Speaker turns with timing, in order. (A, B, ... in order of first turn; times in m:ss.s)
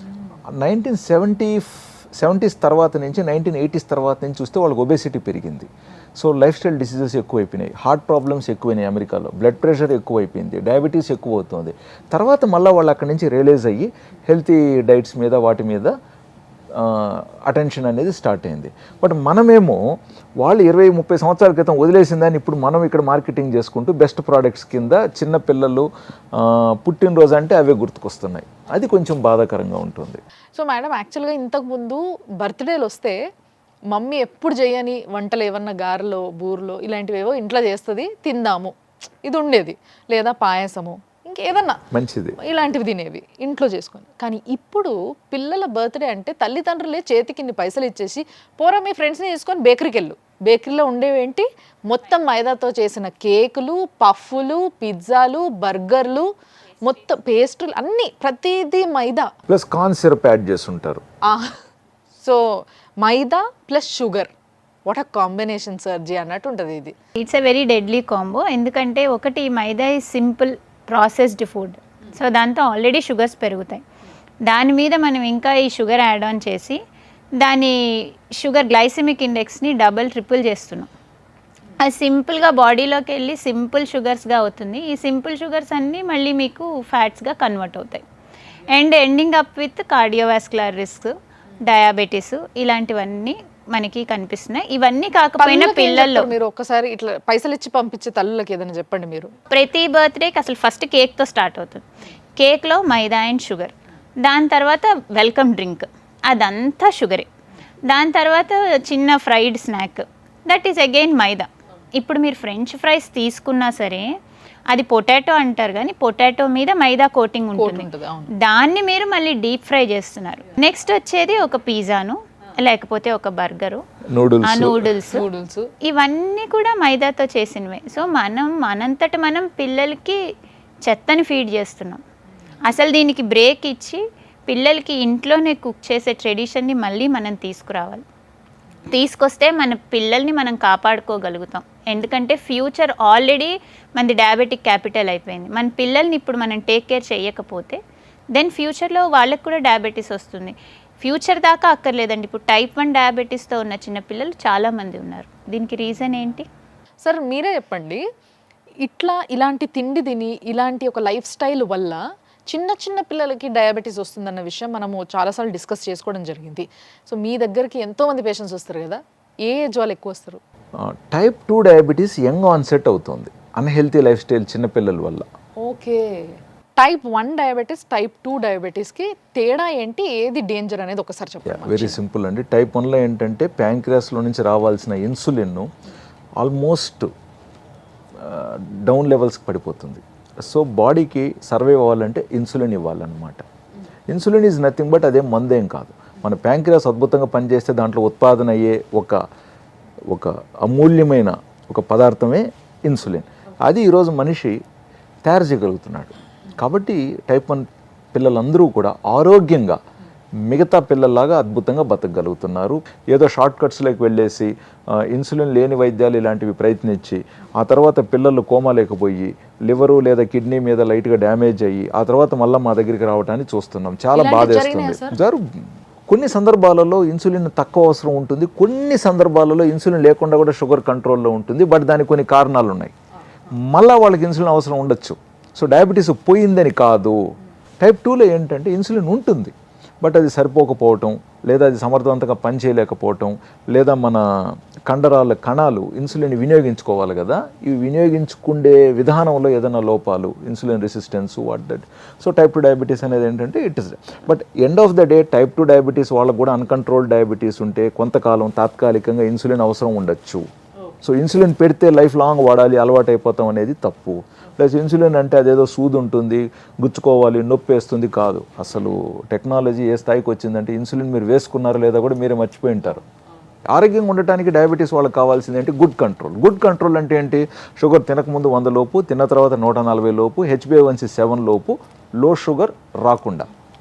0:00.5-0:01.7 A
0:02.2-0:15.9 A
0:16.7-0:19.8 A
0:20.4-0:30.2 A
0:30.6-0:33.2 B
0:33.9-0:41.8 B
0:41.9-0:42.4 A
0:42.4-0:56.3 B
0:56.8-0:59.3 B
0:59.5-1:01.0 A
1:01.3-1:01.6 B
1:02.2-1:04.3 B
1:04.9-1:06.9 B
1:07.2-1:13.8 C
1:14.5-1:16.8 C
1:17.4-1:20.9 C
1:21.8-1:28.0 C
1:28.7-1:31.1 C
1:31.6-1:36.3 C
1:35.4-1:39.3 B
1:39.5-1:41.8 C
1:42.4-1:47.3 C
1:47.9-1:54.1 C
1:54.7-2:03.8 C
1:57.6-1:58.3 B
2:04.1-2:04.9 A
2:04.4-2:05.2 C
2:05.1-2:05.7 B
2:05.9-2:10.2 C
2:10.8-2:12.0 C
2:12.7-2:18.0 C
2:18.9-2:27.8 C
2:28.4-2:36.5 C
2:37.0-2:38.0 B
2:38.8-2:50.4 B
2:50.8-2:55.3 A
2:55.6-3:02.0 B
3:01.5-3:05.7 A
3:06.4-3:07.1 A
3:08.2-3:13.4 A
3:14.1-3:19.2 A
3:20.1-3:24.6 A
3:25.3-3:29.8 A
3:30.5-3:52.9 A
3:44.2-3:45.2 B
3:53.7-3:57.2 A
3:57.8-4:20.4 A
4:21.0-4:33.0 A
4:33.7-4:43.5 A